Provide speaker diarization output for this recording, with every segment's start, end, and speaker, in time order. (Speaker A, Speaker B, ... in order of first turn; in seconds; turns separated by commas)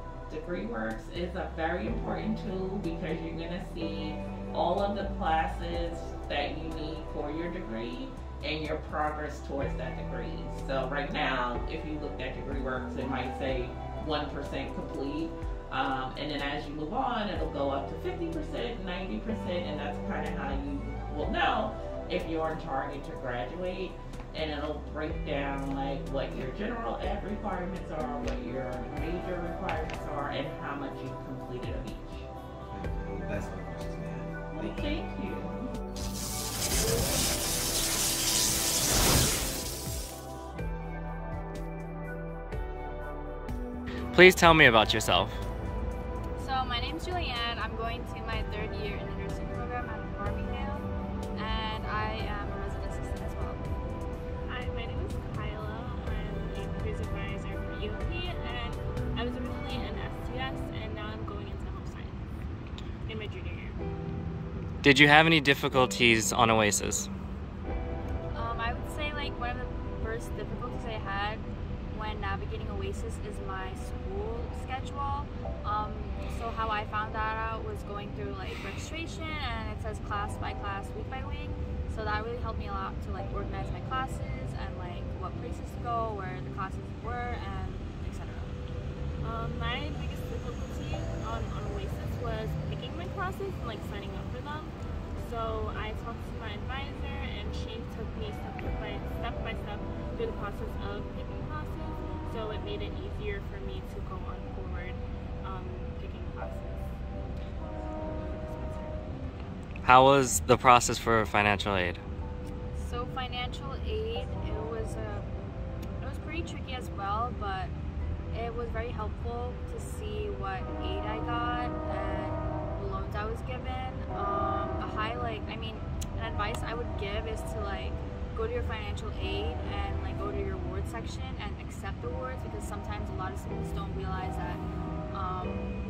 Speaker A: 0.3-32.3, Speaker B: 32.7-34.9, Speaker A: 34.5-35.8, Speaker C: 44.1-45.4, Speaker D: 46.4-53.7, Speaker E: 54.5-62.2, Speaker E: 63.1-63.8, Speaker C: 64.8-67.1, Speaker D: 68.3-88.5, Speaker E: 89.2-106.9, Speaker E: 107.9-109.5, Speaker C: 109.8-112.0, Speaker D: 112.8-115.3, Speaker D: 116.0-117.7, Speaker D: 118.3-135.7